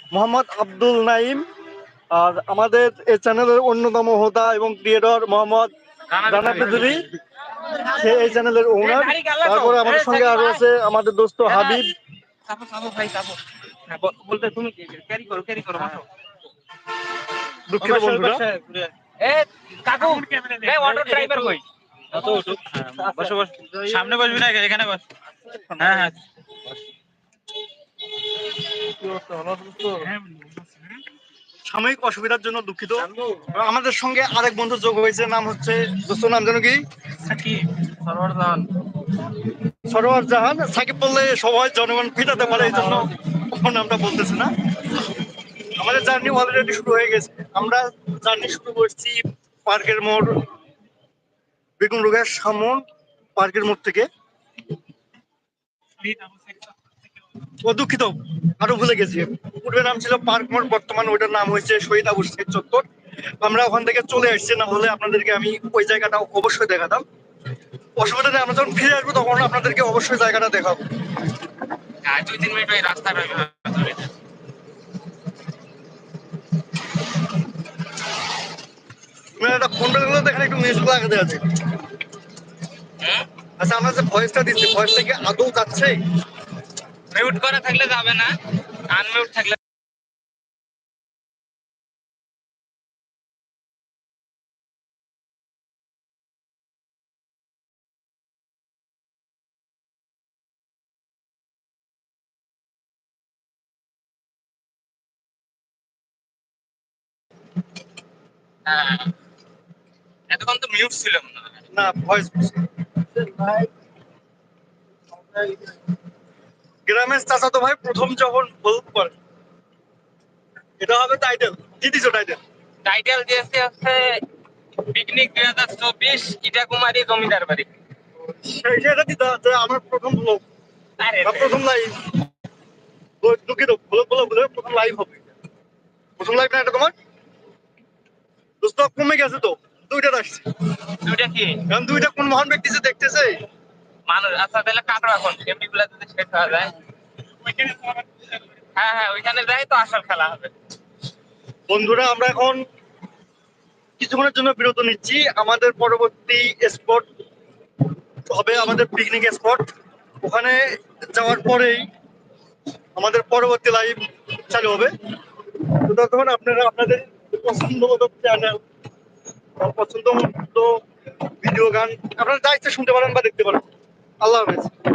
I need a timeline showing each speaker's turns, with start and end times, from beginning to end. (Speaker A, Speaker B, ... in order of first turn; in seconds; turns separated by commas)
Speaker A: 0.1-1.4, Speaker A: 2.1-5.7, Speaker B: 6.1-7.0, Speaker A: 6.2-7.0, Speaker A: 7.8-11.9, Speaker B: 8.8-10.6, Speaker C: 9.8-10.3, Speaker B: 11.4-11.8, Speaker B: 12.4-16.1, Speaker A: 17.7-18.4, Speaker C: 17.8-18.9, Speaker B: 19.2-21.6, Speaker C: 19.9-21.6, Speaker C: 22.1-25.1, Speaker B: 22.9-23.5, Speaker C: 25.7-26.2, Speaker C: 29.0-31.0, Speaker A: 31.6-36.8, Speaker C: 37.2-38.7, Speaker A: 39.9-45.0, Speaker C: 42.4-43.1, Speaker A: 45.8-50.4, Speaker A: 51.8-52.8, Speaker A: 53.4-54.1, Speaker C: 56.0-56.7, Speaker A: 57.6-62.9, Speaker A: 63.4-67.0, Speaker A: 68.0-70.8, Speaker B: 72.0-74.1, Speaker A: 79.4-81.8, Speaker B: 83.0-83.3, Speaker A: 83.6-86.0, Speaker B: 87.1-88.3, Speaker B: 88.9-89.6, Speaker B: 108.7-109.1, Speaker B: 110.3-111.7, Speaker A: 111.7-113.7, Speaker A: 116.8-119.1, Speaker A: 120.8-122.4, Speaker B: 122.8-124.2, Speaker B: 124.8-127.7, Speaker A: 128.2-130.4, Speaker B: 131.0-131.6, Speaker A: 131.2-132.2, Speaker A: 133.2-135.3, Speaker A: 136.2-136.9, Speaker A: 138.6-140.5, Speaker B: 141.0-141.6, Speaker A: 141.7-143.4, Speaker B: 144.1-146.7, Speaker B: 147.4-148.0, Speaker B: 148.7-150.5, Speaker A: 151.7-152.6, Speaker A: 154.0-157.1, Speaker A: 158.3-159.7, Speaker A: 160.2-161.9, Speaker A: 162.9-164.9, Speaker A: 165.6-168.6, Speaker A: 169.6-173.6, Speaker A: 174.2-174.7